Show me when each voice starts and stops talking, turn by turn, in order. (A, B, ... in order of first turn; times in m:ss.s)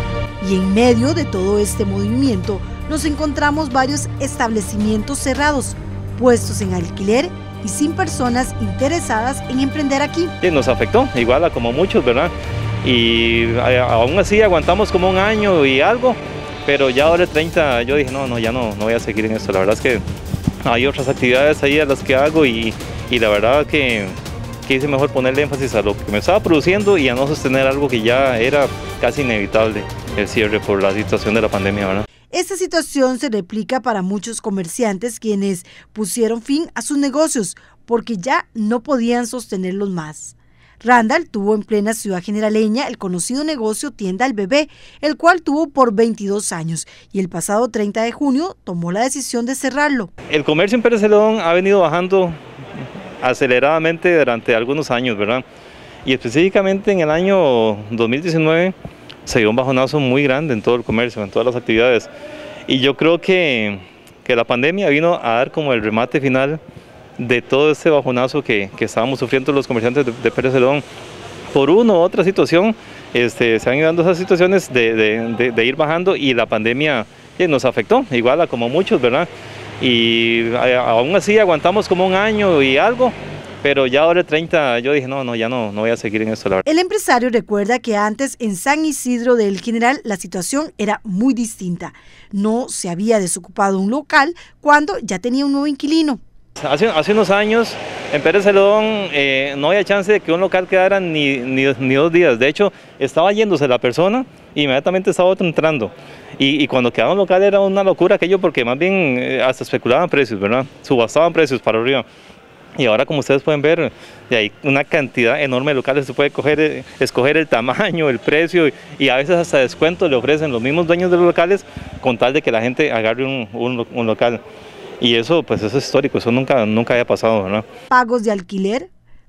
0:00.4-0:10.3 A
0:10.4-0:12.3 B
0:12.8-0:20.0 B
0:20.6-0:32.0 B
0:32.3-0:50.1 A
0:50.3-0:52.4 B
0:53.2-0:55.4 B
0:56.0-0:58.8 B
0:59.3-1:02.1 B
1:02.7-1:06.6 B
1:07.2-1:10.8 B
1:11.5-1:19.3 B
1:19.8-1:26.6 B
1:26.7-1:36.2 A
1:36.6-1:52.0 B
1:52.8-2:04.4 B
2:05.0-2:07.6 B
2:07.9-2:08.9 A